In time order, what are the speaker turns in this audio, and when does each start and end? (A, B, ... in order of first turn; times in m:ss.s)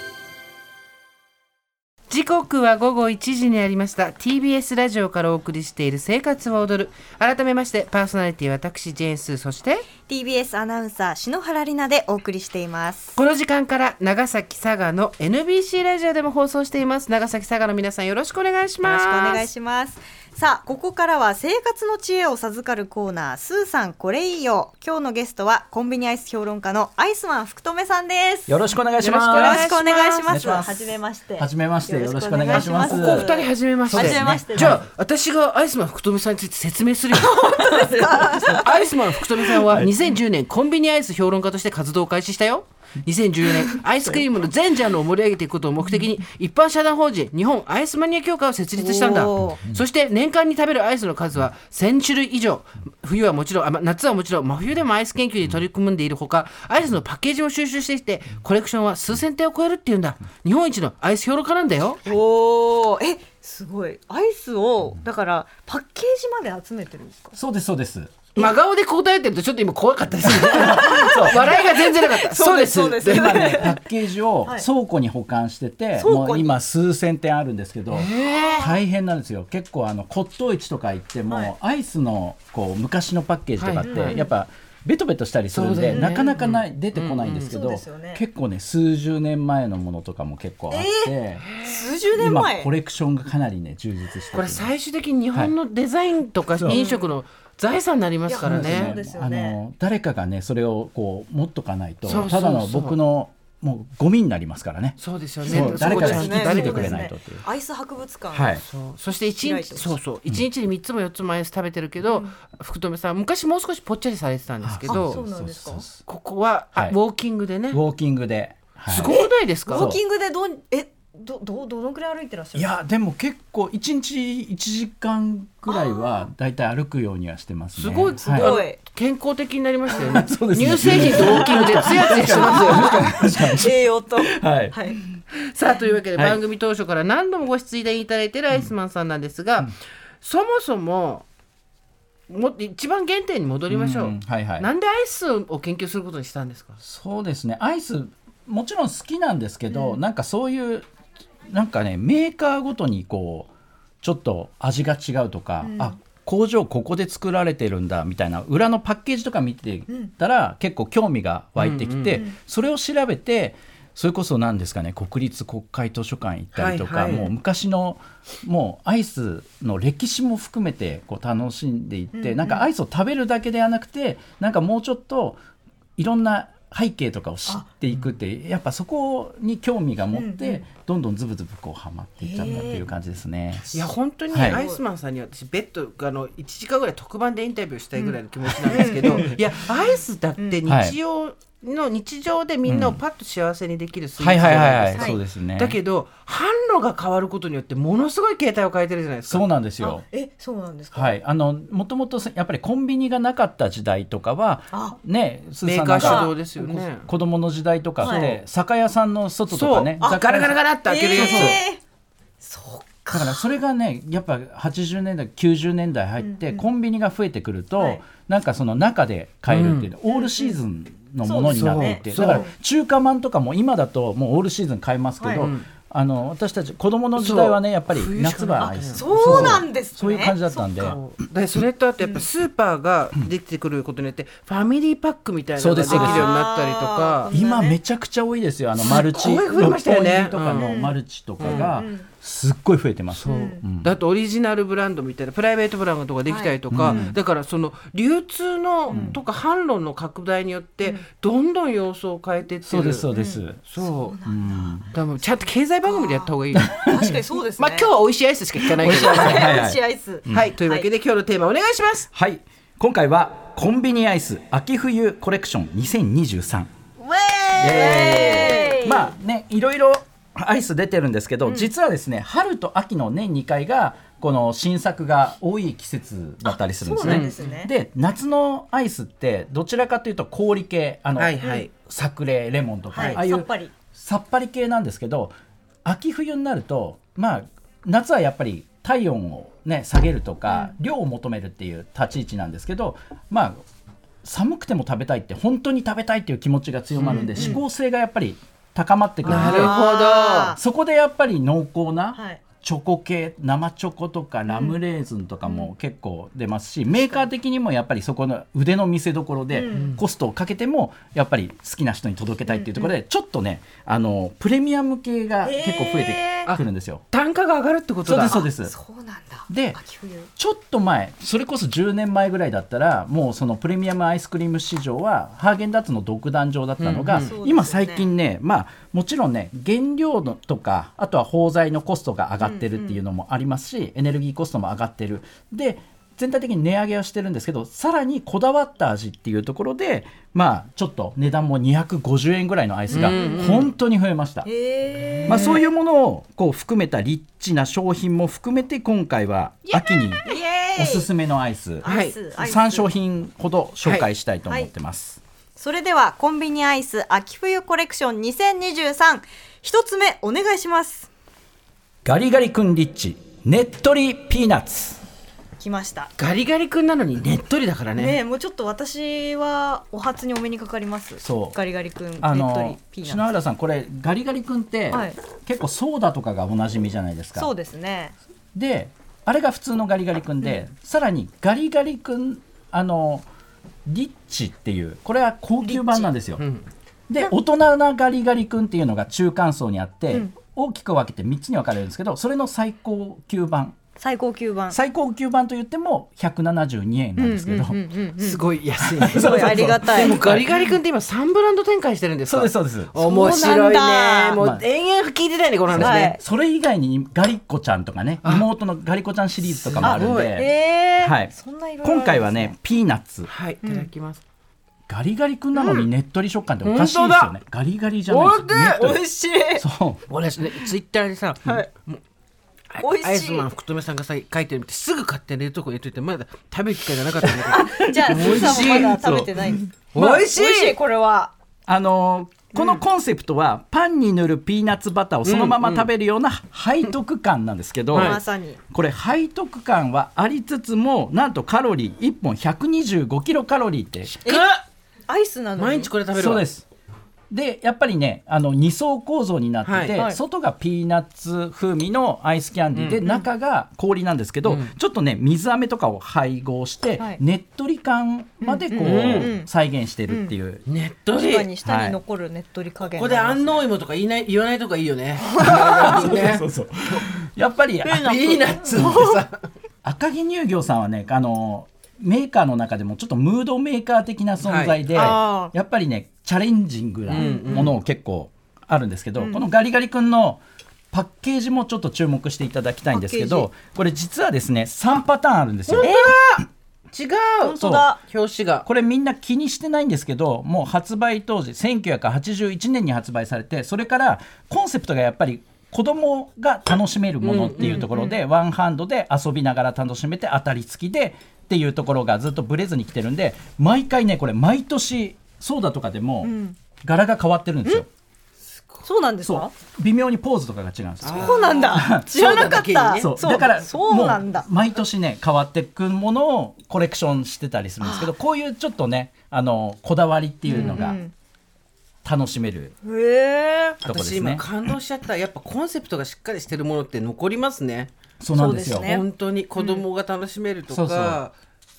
0:02.1-0:09.9 A
0:10.1-0:13.2 B
0:13.2-0:19.5 A
0:18.8-0:28.7 B
0:28.5-0:29.7 C
0:29.0-0:30.4 A
0:29.3-0:34.8 B
0:30.3-0:33.4 C
0:32.5-0:37.5 A
0:33.9-0:34.8 C
0:37.1-0:39.0 B
0:38.0-0:38.5 C
0:38.5-1:02.0 A
0:39.6-0:39.9 C
0:43.7-0:44.2 C
0:48.8-0:49.6 B
0:49.4-0:49.8 C
1:02.0-1:07.4 B
1:07.3-1:08.2 C
1:08.4-1:13.7 A
1:10.3-1:11.5 C
1:10.4-1:13.8 B
1:13.1-1:31.5 C
1:16.0-1:16.6 B
1:17.9-1:18.7 A
1:18.4-1:18.7 B
1:21.3-1:21.5 B
1:23.6-1:24.2 A
1:23.8-1:24.3 B
1:25.5-1:27.5 A
1:25.9-1:26.2 B
1:27.4-1:28.2 B
1:30.7-1:32.7 B
1:31.5-1:31.8 A
1:32.1-1:34.7 C
1:34.3-1:38.9 A
1:36.6-1:36.8 C
1:36.7-1:37.1 B
1:38.3-1:39.6 B
1:38.4-1:47.4 C
1:42.0-1:43.0 A
1:45.0-1:47.1 A
1:45.5-1:48.6 B
1:48.3-1:48.6 C
1:48.6-1:55.2 A
1:49.4-1:50.0 B
1:52.0-1:52.3 B
1:54.6-1:56.0 C
1:54.9-1:55.9 B
1:56.0-1:57.8 A
1:57.7-2:00.0 C
1:58.9-1:59.9 A
1:59.1-2:02.7 B
2:02.6-2:08.5 C
2:05.7-2:06.2 B
2:07.7-2:13.2 A
2:08.3-2:08.8 B
2:10.0-2:15.2 C
2:12.3-2:15.0 B
2:15.3-2:21.2 A
2:22.3-2:26.8 A
2:23.7-2:24.7 C
2:26.8-2:30.9 C
2:29.7-2:30.0 B
2:31.5-2:33.5 C
2:34.0-2:55.4 C
2:35.6-2:36.0 B
2:41.6-2:42.2 A
2:46.5-2:47.3 A
2:52.1-2:52.7 B
2:56.0-3:03.7 C
3:00.1-3:00.6 B
3:02.2-3:02.9 B
3:03.7-3:19.5 A
3:04.3-3:04.6 C
3:04.4-3:04.8 B
3:08.0-3:09.4 B
3:08.8-3:09.4 C
3:10.7-3:11.0 C
3:12.6-3:13.0 C
3:14.2-3:15.8 C
3:19.3-3:20.0 C
3:19.8-3:21.2 B
3:20.9-3:30.6 C
3:24.7-3:25.0 B
3:25.6-3:27.1 A
3:26.0-3:26.3 B
3:28.0-3:28.3 B
3:28.0-3:28.4 A
3:29.5-3:31.6 A
3:30.0-3:30.3 B
3:30.8-3:31.8 B
3:31.1-3:31.6 C
3:32.4-3:33.5 B
3:33.1-3:51.0 C
3:36.2-3:36.7 B
3:37.8-3:38.0 B
3:39.5-3:39.9 A
3:40.1-3:40.6 B
3:41.2-3:42.5 B
3:41.6-3:42.5 A
3:45.2-3:45.5 B
3:45.4-3:45.6 A
3:47.2-3:49.6 A
3:48.9-3:50.6 B
3:50.7-3:57.3 A
3:55.6-3:56.3 C
3:55.9-3:57.8 B
3:57.3-4:03.9 C
3:58.8-4:00.7 A
4:00.6-4:02.1 B
4:01.4-4:01.8 A
4:03.1-4:13.1 A
4:03.3-4:03.6 B
4:06.3-4:07.1 B
4:06.7-4:07.2 C
4:08.9-4:09.2 B
4:08.9-4:09.2 C
4:12.6-4:13.6 C
4:13.1-4:14.9 B
4:13.7-4:14.2 A
4:14.2-4:14.9 C
4:14.9-4:16.7 A
4:15.9-4:17.9 B
4:16.6-4:17.0 C
4:17.5-4:19.6 A
4:18.8-4:20.5 C
4:18.8-4:20.9 B
4:20.3-4:22.1 A
4:22.1-4:26.7 C
4:27.1-4:28.8 A
4:27.5-4:29.1 B
4:27.6-4:45.3 C
4:31.4-4:31.7 B
4:36.4-4:37.7 B
4:37.0-4:37.4 A
4:41.2-4:41.7 A
4:41.4-4:41.7 B
4:42.9-4:43.7 B
4:43.0-4:43.2 A
4:45.8-4:53.6 C
4:50.5-4:50.7 B
4:54.2-4:59.8 C
4:57.0-4:57.6 A
4:57.1-4:57.6 B
4:59.2-5:00.6 A
4:59.3-5:00.6 B
5:00.5-5:17.0 C
5:02.1-5:02.4 B
5:04.5-5:04.8 B
5:05.4-5:05.7 B
5:06.9-5:07.3 B
5:09.5-5:09.9 B
5:09.7-5:10.0 A
5:12.5-5:13.0 B
5:15.4-5:16.5 B
5:16.5-5:18.4 A
5:18.0-5:18.7 C
5:18.2-5:20.3 B
5:19.5-5:19.8 C
5:20.4-5:44.5 C
5:26.8-5:27.3 A
5:27.2-5:28.1 B
5:32.4-5:33.0 B
5:42.9-5:43.7 A
5:43.0-5:43.5 B
5:44.4-5:45.6 B
5:45.2-5:45.6 A
5:45.3-5:50.2 C
5:49.7-5:50.2 A
5:50.2-5:51.1 B
5:50.8-5:55.2 C
5:51.8-5:52.9 B
5:51.9-5:52.2 A
5:53.8-5:54.1 A
5:54.5-5:54.7 B
5:55.6-6:01.1 B
6:02.0-6:05.0 C
6:05.6-6:06.1 B
6:06.2-6:08.2 A
6:08.0-6:13.2 B
6:11.2-6:11.6 C
6:12.2-6:17.5 C
6:14.9-6:15.2 B
6:17.4-6:18.1 B
6:18.6-6:23.3 C
6:23.9-6:26.4 C
6:25.6-6:26.1 B
6:26.4-6:26.6 A
6:27.1-6:33.8 C
6:34.0-6:34.8 B
6:34.7-6:37.8 C
6:37.2-6:38.4 B
6:38.2-6:46.1 A
6:38.8-6:40.7 C
6:39.2-6:40.2 B
6:42.3-6:42.9 C
6:43.0-6:44.4 B
6:44.4-6:44.6 C
6:45.7-6:53.3 C
6:45.8-6:46.2 B
6:49.5-6:50.3 A
6:49.8-6:52.6 B
6:53.3-6:54.2 A
6:53.6-6:53.9 B
6:54.9-6:59.0 C
6:56.6-6:57.4 A
6:58.1-6:58.7 A
6:58.5-6:59.6 B
6:59.6-7:00.0 C
7:00.1-7:02.0 A
7:02.7-7:09.3 A
7:02.8-7:03.5 B
7:07.4-7:09.7 B
7:08.1-7:08.8 C
7:09.9-7:10.8 A
7:10.0-7:10.3 C
7:10.3-7:11.3 B
7:11.7-7:18.2 C
7:12.5-7:12.8 B
7:15.2-7:15.9 A
7:18.0-7:18.6 B
7:18.7-7:24.3 C
7:24.2-7:24.6 B
7:24.3-7:24.5 A
7:25.1-7:25.9 B
7:25.6-7:26.5 A
7:26.1-7:26.7 C
7:27.3-7:40.6 C
7:29.6-7:30.0 A
7:32.8-7:33.0 A
7:34.4-7:34.7 A
7:38.4-7:39.5 B
7:38.8-7:39.3 A
7:40.1-7:40.4 B
7:40.7-7:41.5 A
7:41.1-7:43.7 B
7:41.6-7:42.0 C
7:42.8-7:46.5 A
7:45.3-7:46.2 B
7:45.4-7:49.0 C
7:47.8-7:49.2 B
7:47.9-7:49.4 A
7:49.8-8:06.0 C
7:54.4-7:55.2 A
7:55.0-7:55.5 B
7:57.1-7:57.8 A
7:57.2-7:57.8 B
7:59.2-7:59.4 B
8:02.9-8:03.5 B
8:05.7-8:08.7 A
8:05.8-8:06.2 B
8:07.4-8:08.0 B
8:07.6-8:07.9 C
8:08.6-8:27.9 C
8:17.2-8:17.9 A
8:17.6-8:18.2 B
8:26.2-8:26.6 B
8:28.8-8:29.5 B
8:29.2-8:32.4 C
8:31.0-8:33.1 A
8:31.1-8:34.5 B
8:33.0-8:41.0 C
8:37.8-8:38.1 B
8:40.5-8:41.1 B
8:40.5-8:40.8 A
8:42.0-8:42.7 C
8:42.8-8:43.8 B
8:43.8-8:44.5 C
8:43.8-8:47.9 A
8:48.2-8:49.0 C
8:48.3-8:49.0 B
8:48.7-8:51.3 A
8:49.6-8:49.8 B
8:50.7-8:51.2 C